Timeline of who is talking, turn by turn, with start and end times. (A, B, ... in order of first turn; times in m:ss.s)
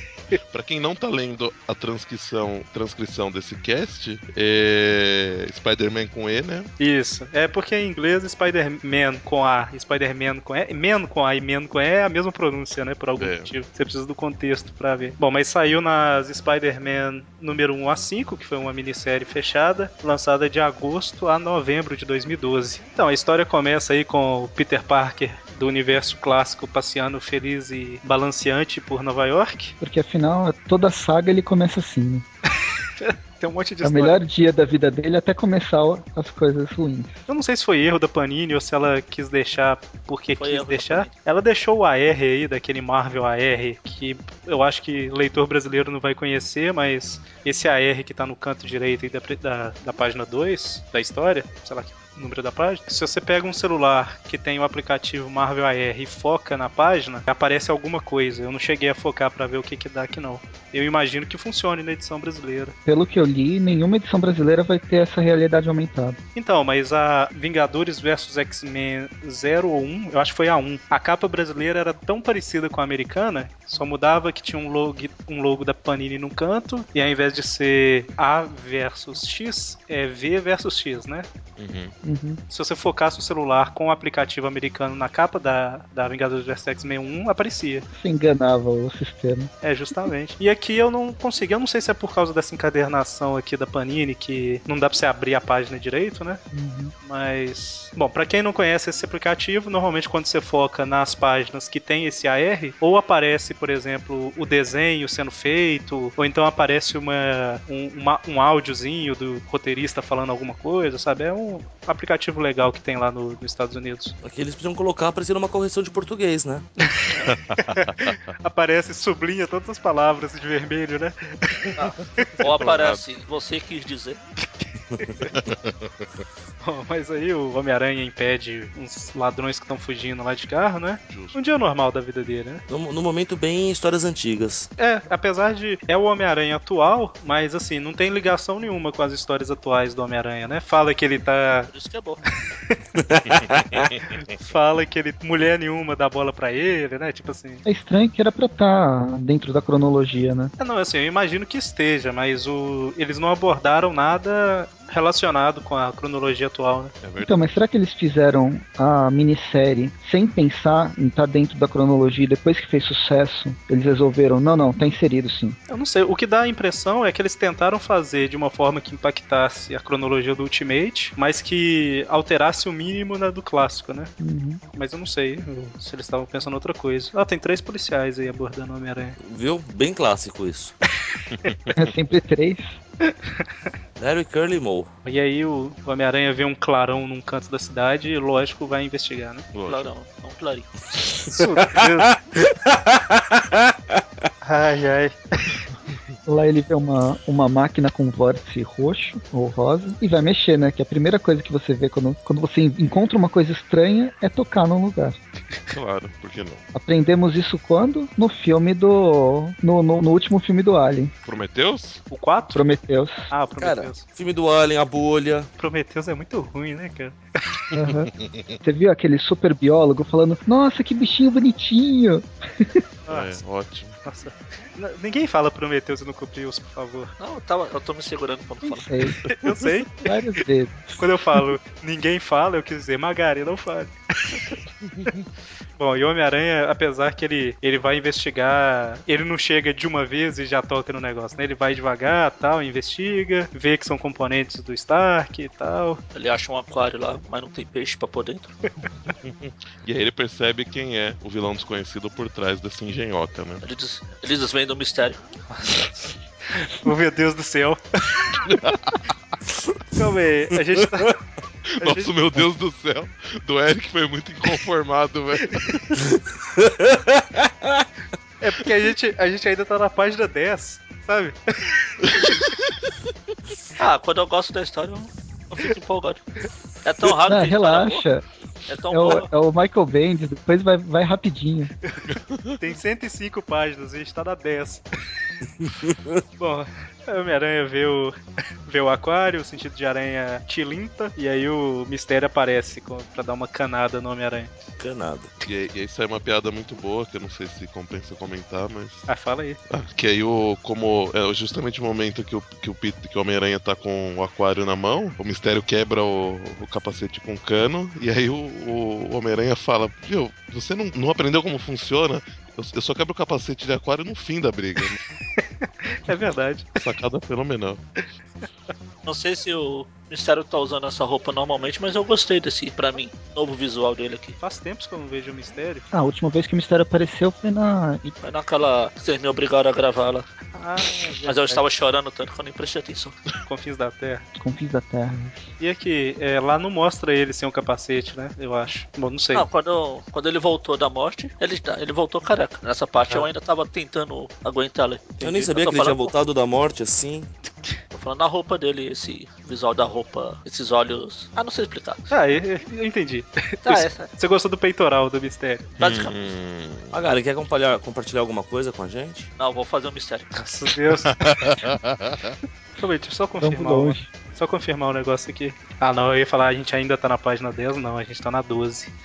0:00.3-0:06.7 A
0:06.8-0:29.7 B
0:13.2-0:13.5 A
0:29.8-0:32.2 C
0:33.0-0:34.2 B
0:33.8-0:37.1 C
0:37.3-1:02.7 B
0:40.4-0:41.1 D
1:02.9-1:06.2 C
1:06.4-1:21.3 B
1:21.6-1:22.0 A
1:22.0-1:22.4 C
1:22.5-1:27.9 B
1:27.9-1:29.5 C
1:29.6-1:36.4 B
1:36.5-1:36.9 C
1:37.0-1:54.2 B
1:54.2-1:56.7 E
1:56.8-2:02.7 B
1:57.3-1:58.2 A
2:01.8-2:04.2 D
2:02.5-2:03.1 A
2:04.6-2:05.3 B
2:05.3-2:06.1 A
2:06.6-2:12.6 B
2:11.1-2:11.4 A
2:12.7-2:14.7 E
2:14.8-2:21.7 B
2:21.7-2:22.2 D
2:23.0-2:23.9 E
2:24.0-2:27.6 B
2:27.6-2:30.5 C
2:30.6-2:36.9 B
2:37.0-2:37.7 A
2:37.2-2:45.6 C
2:45.7-2:54.1 B
2:54.2-2:54.6 C
2:54.7-2:59.2 B
2:59.2-3:00.8 E
3:01.3-3:01.9 A
3:01.7-3:02.7 C
3:03.0-3:03.5 B
3:04.0-3:04.9 E
3:05.0-3:09.5 B
3:09.5-3:09.9 A
3:09.7-3:10.7 D
3:11.2-3:13.6 E
3:11.3-3:12.1 B
3:14.4-3:15.6 B
3:16.3-3:25.2 C
3:25.7-3:26.6 A
3:26.7-3:31.1 C
3:31.2-3:32.0 A
3:32.1-3:32.6 B
3:32.5-3:33.3 C
3:33.3-3:34.1 B
3:33.6-3:35.5 E
3:35.6-3:37.6 B
3:37.7-3:38.1 C
3:37.8-3:38.6 A
3:38.6-3:42.8 C
3:43.1-3:43.4 B
3:43.1-3:44.0 A
3:44.0-3:47.1 B
3:47.2-3:48.9 D
3:48.6-3:49.2 C
3:49.3-3:50.1 B
3:50.0-3:51.0 C
3:51.0-3:54.6 B
3:55.8-4:06.0 B
4:06.1-4:08.5 D
4:09.1-4:13.6 A
4:13.6-4:15.9 D
4:16.5-4:18.4 B
4:18.5-4:19.0 A
4:19.9-4:21.2 B
4:21.8-4:25.8 A
4:21.8-4:22.2 B
4:25.6-4:26.0 B
4:26.1-4:27.8 E
4:28.4-4:32.2 B
4:33.8-4:36.2 D
4:36.8-4:38.0 D
4:37.3-4:38.2 C
4:38.7-4:39.3 D
4:38.9-4:41.7 C
4:42.1-4:42.6 A
4:42.6-4:44.8 B
4:45.9-4:46.2 E
4:46.4-4:54.5 B
4:54.8-4:55.3 E
4:55.4-4:59.1 A
4:59.1-4:59.6 B
4:59.7-5:15.0 A
5:15.4-5:16.8 B
5:16.8-5:17.8 A
5:19.0-5:24.4 D
5:24.4-5:25.9 B
5:25.9-5:28.2 C
5:28.2-5:30.3 D
5:30.5-5:31.6 B
5:31.3-5:33.2 D
5:33.5-5:34.2 B
5:34.4-5:35.5 C
5:35.6-5:39.4 B
5:39.3-5:46.1 D
5:45.2-5:47.3 E
5:47.9-5:52.1 D
5:52.1-5:55.7 B
5:53.6-5:54.1 D
5:55.8-5:56.3 D
5:55.8-5:57.1 A
5:56.9-5:59.3 E
5:59.4-6:00.3 D
6:00.4-6:01.7 B
6:01.1-6:02.3 A
6:02.8-6:08.9 B
6:03.4-6:04.1 C